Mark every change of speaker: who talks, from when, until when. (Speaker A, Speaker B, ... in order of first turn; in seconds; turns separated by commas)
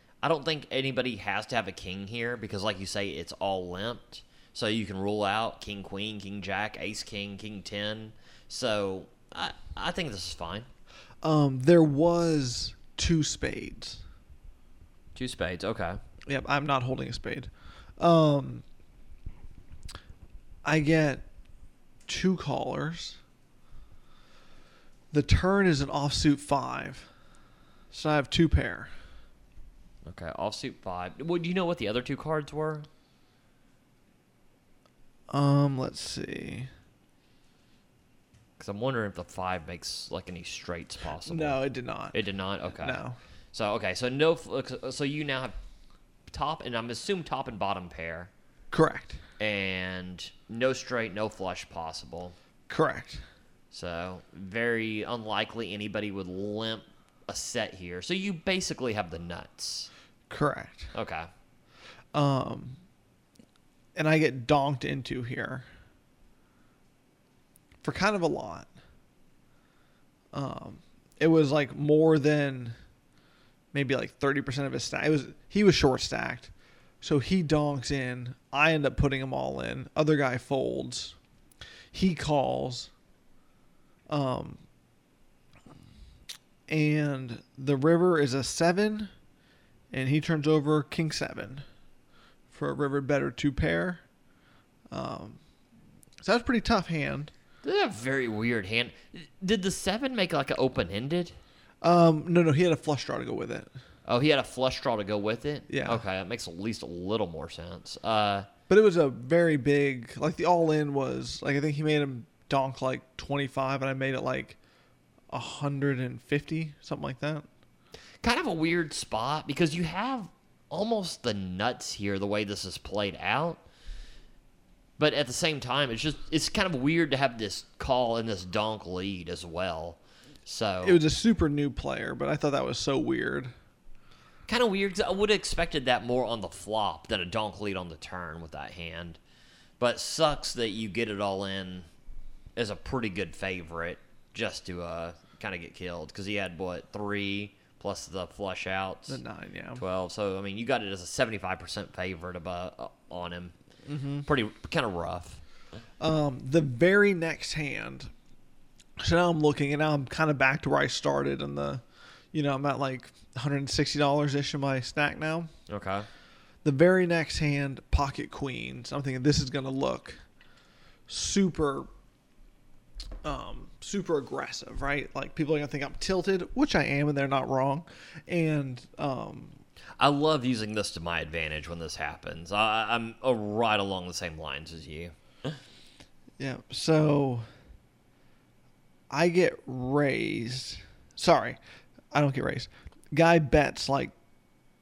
Speaker A: 0.2-10.7, Speaker B: 11.2-14.0, Speaker A: 15.2-16.0, Speaker B: 16.3-18.6, Speaker B: 20.6-21.2, Speaker B: 22.1-23.2, Speaker B: 25.1-27.1, Speaker B: 27.9-28.9, Speaker A: 30.1-32.9, Speaker B: 35.3-36.7, Speaker A: 38.6-41.6, Speaker B: 41.2-42.2, Speaker A: 42.1-43.0, Speaker B: 42.8-43.2, Speaker A: 43.5-45.5, Speaker A: 46.3-48.3, Speaker B: 48.7-49.2, Speaker A: 49.4-52.4, Speaker B: 52.7-53.2, Speaker A: 53.7-59.9, Speaker B: 60.3-60.9, Speaker A: 60.9-61.3, Speaker B: 62.1-62.8, Speaker B: 64.0-65.7, Speaker B: 67.8-68.7, Speaker B: 70.3-72.8, Speaker B: 73.7-81.2, Speaker B: 81.9-82.9, Speaker B: 84.1-84.6, Speaker B: 86.7-89.1, Speaker B: 89.9-91.7, Speaker B: 92.5-94.0, Speaker B: 94.9-95.4, Speaker B: 96.2-97.3, Speaker A: 97.6-101.4, Speaker B: 101.8-103.7, Speaker A: 104.1-108.5, Speaker B: 105.7-106.0, Speaker B: 108.7-114.6, Speaker B: 115.3-117.5, Speaker A: 118.2-123.6, Speaker A: 125.0-131.0, Speaker B: 130.8-133.5, Speaker A: 134.5-139.2, Speaker A: 139.8-141.9, Speaker A: 142.6-149.2, Speaker B: 149.1-149.8, Speaker A: 149.8-153.6, Speaker B: 153.9-154.3, Speaker A: 154.3-155.4, Speaker B: 156.0-158.1, Speaker B: 159.0-165.5, Speaker A: 165.7-166.1, Speaker B: 166.6-170.2, Speaker B: 171.1-171.9, Speaker B: 173.2-179.6, Speaker A: 180.0-185.6, Speaker B: 186.4-187.6, Speaker B: 189.1-191.6, Speaker B: 192.1-194.1